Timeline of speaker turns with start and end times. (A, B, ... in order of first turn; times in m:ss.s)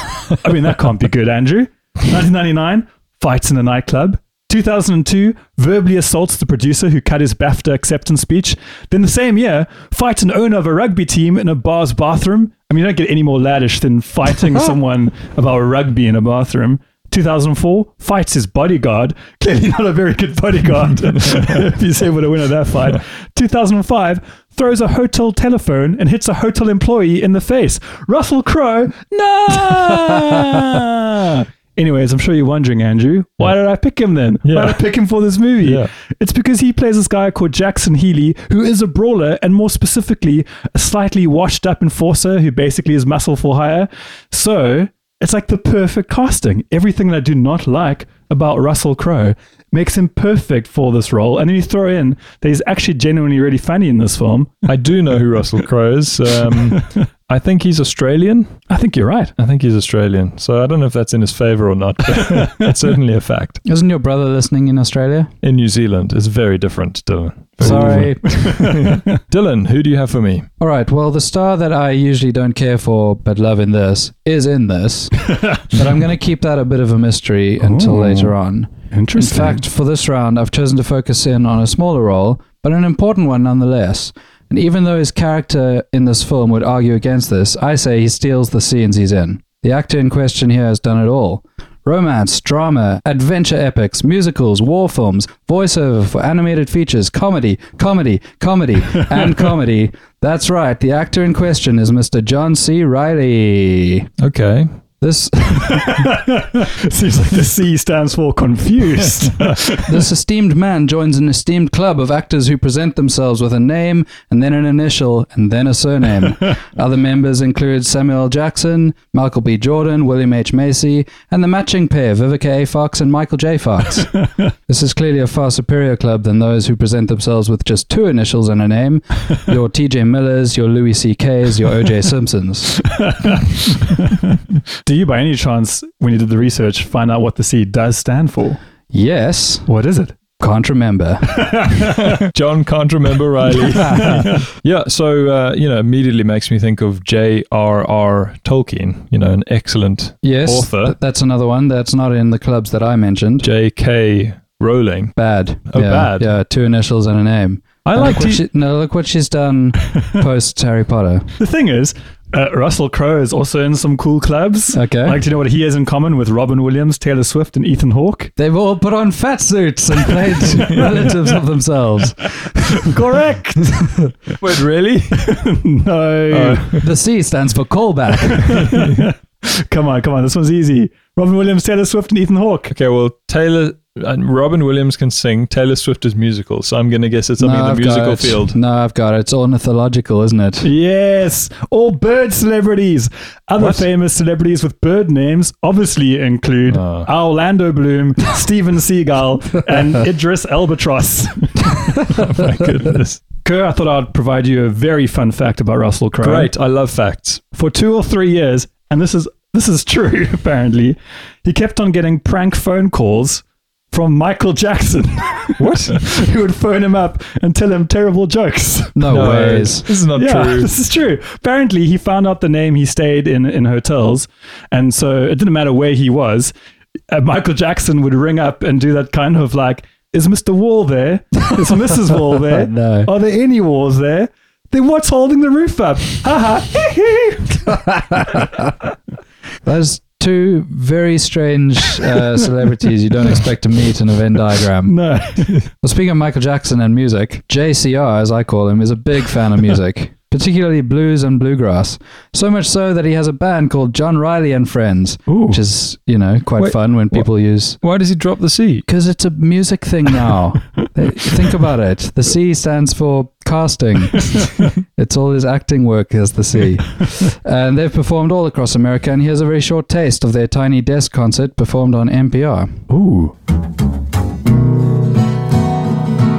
0:00.3-0:54.6 A
0:34.4-0:34.8 B
0:35.6-0:35.9 B
0:54.6-0:58.6 B
0:58.7-0:59.4 A
0:59.4-1:03.6 B
1:02.2-1:02.5 A
1:03.6-1:05.3 C
1:05.4-1:10.5 B
1:07.6-1:08.7 C
1:07.6-1:09.0 A
1:10.6-1:44.1 C
1:17.6-1:18.3 A
1:18.9-1:19.6 A
1:44.2-1:44.7 B
1:45.0-1:46.1 C
1:45.6-1:50.0 A
1:49.8-2:12.8 C
2:12.9-2:18.6 A
2:18.9-2:19.6 C
2:19.7-2:20.1 A
2:20.4-2:21.6 C
2:21.3-2:22.1 A
2:21.9-2:30.9 B
2:23.8-2:24.1 C
2:24.0-2:24.4 A
2:30.2-2:33.5 C
2:33.4-2:35.1 B
2:35.2-2:41.3 C
2:35.7-2:36.3 B
2:37.8-2:38.4 B
2:41.4-2:48.3 A
2:44.7-2:45.2 C
2:48.4-2:53.0 C
2:52.8-2:53.9 A
2:54.4-2:55.3 B
2:55.1-2:56.8 A
2:56.3-2:56.8 B
2:56.8-2:58.6 C
2:58.3-3:02.7 A
2:58.6-2:59.0 B
3:02.7-3:08.6 B
3:07.4-3:10.7 C
3:10.6-3:22.0 A
3:13.6-3:13.8 B
3:16.7-3:17.1 B
3:22.0-3:23.2 B
3:23.4-3:26.5 A
3:26.2-3:27.4 B
3:27.5-3:39.0 A
3:35.6-3:36.1 B
3:39.0-3:39.9 C
3:39.1-3:40.7 B
3:40.1-3:46.5 A
3:47.1-3:57.7 A
3:52.5-3:53.1 C
3:57.6-3:58.7 C
3:59.6-4:04.9 C
4:04.8-4:05.6 A
4:05.8-4:17.8 C
4:15.3-4:15.6 A
4:16.6-4:18.9 B
4:18.9-4:32.8 C
4:32.9-4:33.3 A